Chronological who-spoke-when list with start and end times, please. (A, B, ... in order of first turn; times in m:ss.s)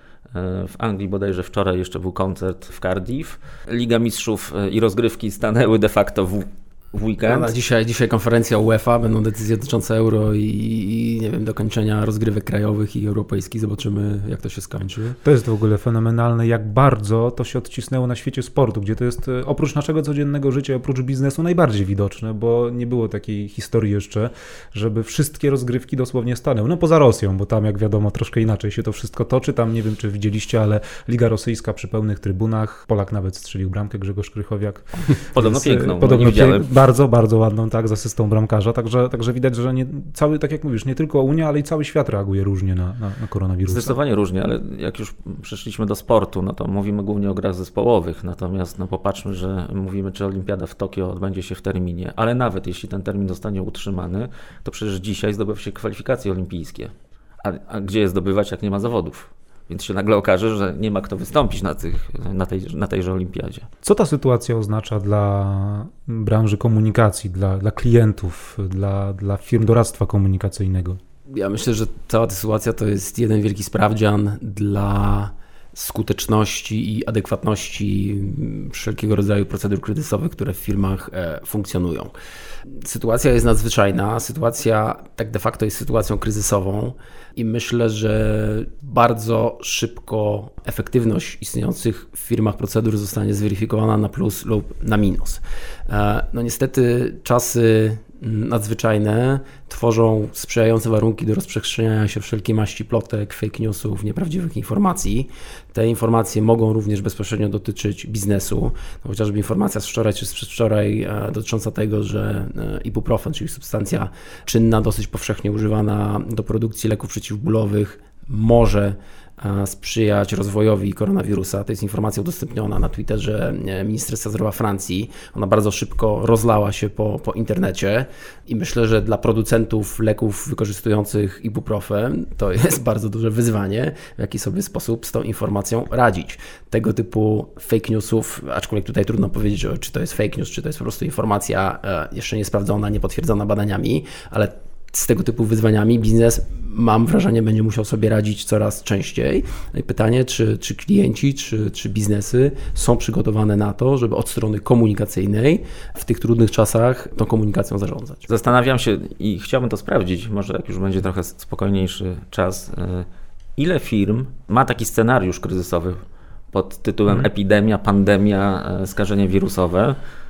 0:00.3-0:07.5 A
0:07.2-0:15.2 B
0:15.2-0:44.0 C
0:35.2-0:36.6 A
0:43.7-0:56.9 A
0:57.4-1:03.6 A
1:03.8-1:11.0 C
1:11.3-1:22.1 B
1:22.8-2:38.2 B
2:38.3-2:43.0 A
2:43.6-2:46.0 A
2:46.5-2:50.0 A